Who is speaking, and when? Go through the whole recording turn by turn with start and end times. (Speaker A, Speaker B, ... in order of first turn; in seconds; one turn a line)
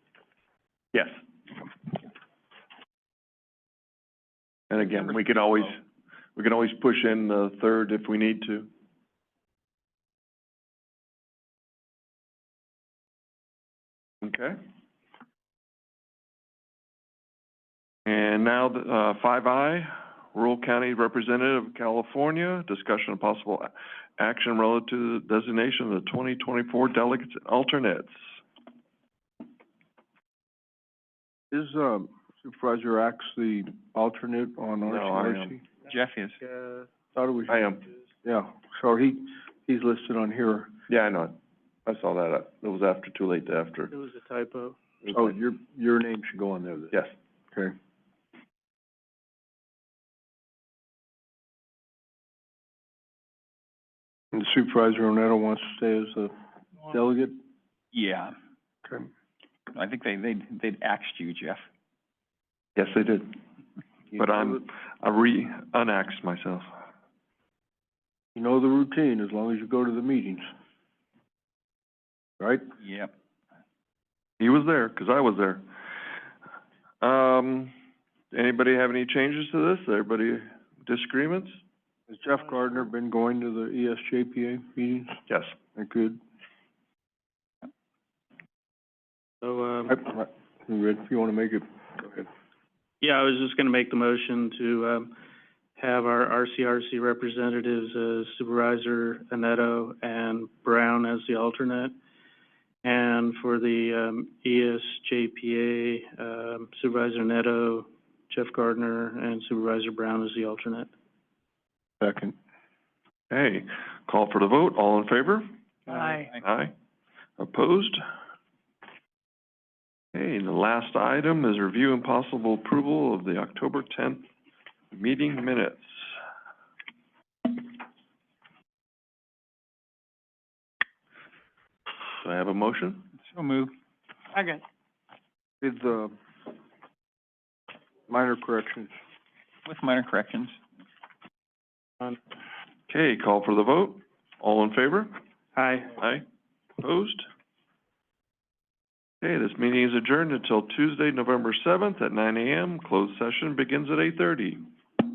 Speaker A: 4.7-5.8
Speaker B: 4.8-5.8
Speaker A: 6.4-8.7
Speaker A: 14.2-14.6
Speaker A: 18.1-28.2
Speaker C: 31.5-35.6
Speaker A: 34.9-35.6
Speaker B: 35.9-36.4
Speaker D: 36.4-36.9
Speaker C: 37.1-37.6
Speaker A: 37.5-37.9
Speaker C: 38.2-40.7
Speaker A: 40.9-43.9
Speaker D: 43.9-44.8
Speaker A: 45.0-45.4
Speaker C: 45.1-47.0
Speaker C: 54.3-56.3
Speaker C: 56.8-57.4
Speaker B: 57.9-58.3
Speaker B: 59.7-61.6
Speaker A: 62.8-63.4
Speaker C: 64.1-64.6
Speaker A: 64.2-66.7
Speaker C: 68.3-70.5
Speaker C: 72.4-72.6
Speaker B: 72.8-73.1
Speaker A: 74.4-75.6
Speaker A: 77.0-77.7
Speaker A: 78.3-81.6
Speaker C: 82.1-85.2
Speaker A: 85.3-85.5
Speaker C: 85.8-86.2
Speaker D: 89.4-90.0
Speaker C: 89.9-92.3
Speaker D: 93.0-95.1
Speaker D: 95.8-101.9
Speaker D: 102.8-110.9
Speaker C: 112.0-112.3
Speaker A: 113.3-115.5
Speaker B: 115.9-116.4
Speaker A: 116.3-116.7
Speaker A: 117.4-118.0
Speaker A: 120.1-124.3
Speaker A: 124.9-125.9
Speaker A: 132.2-133.1
Speaker B: 133.2-133.7
Speaker D: 134.3-134.6
Speaker C: 135.6-136.1
Speaker C: 138.1-138.9
Speaker B: 139.7-140.6
Speaker A: 142.9-145.1
Speaker D: 145.6-146.0
Speaker A: 146.0-146.2
Speaker A: 146.8-147.2
Speaker A: 149.2-154.6